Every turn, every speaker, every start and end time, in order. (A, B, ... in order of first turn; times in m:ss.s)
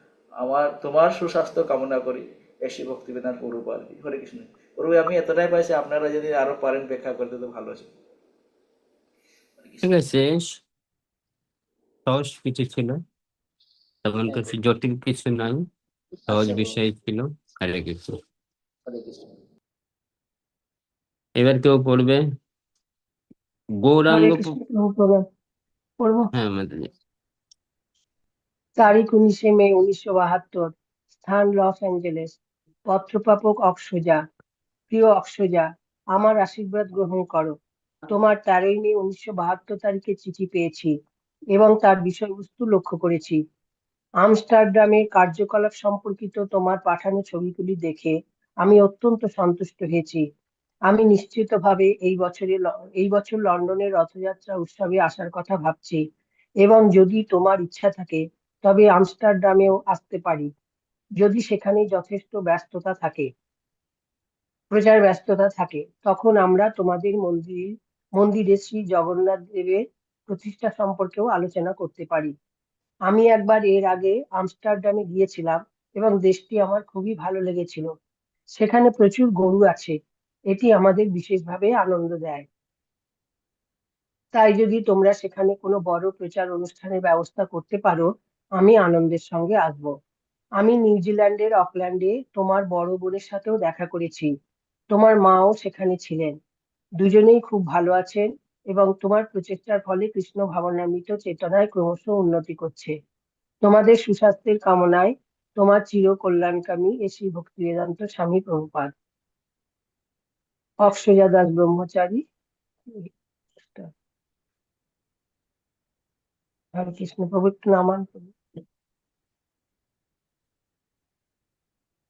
0:00.4-0:07.9 A
0:09.6-0:09.9 A
0:09.8-0:10.5 B
0:12.1-0:13.0 B
0:14.0-0:15.6 B
0:16.2-0:16.8 A
0:16.3-0:18.2 B
0:18.8-0:19.3 A
0:21.4-0:22.2 B
0:23.8-0:24.5 B
0:24.1-0:25.2 C
0:26.0-0:26.3 C
0:26.3-0:26.9 B
0:28.8-0:32.4 C
0:32.9-0:34.2 C
0:34.9-0:37.5 C
0:38.1-0:40.9 C
0:41.5-0:43.4 C
0:44.2-0:50.2 C
0:50.9-0:56.0 C
0:56.6-1:00.5 C
1:01.2-1:03.3 C
1:04.7-1:12.3 C
1:13.1-1:17.9 C
1:18.6-1:20.0 C
1:20.5-1:22.5 C
1:24.3-1:29.9 C
1:30.6-1:34.3 C
1:34.9-1:36.4 C
1:37.0-1:42.9 C
1:43.6-1:48.9 C
1:50.8-1:52.2 C
1:52.9-1:53.9 C
1:56.7-1:58.4 C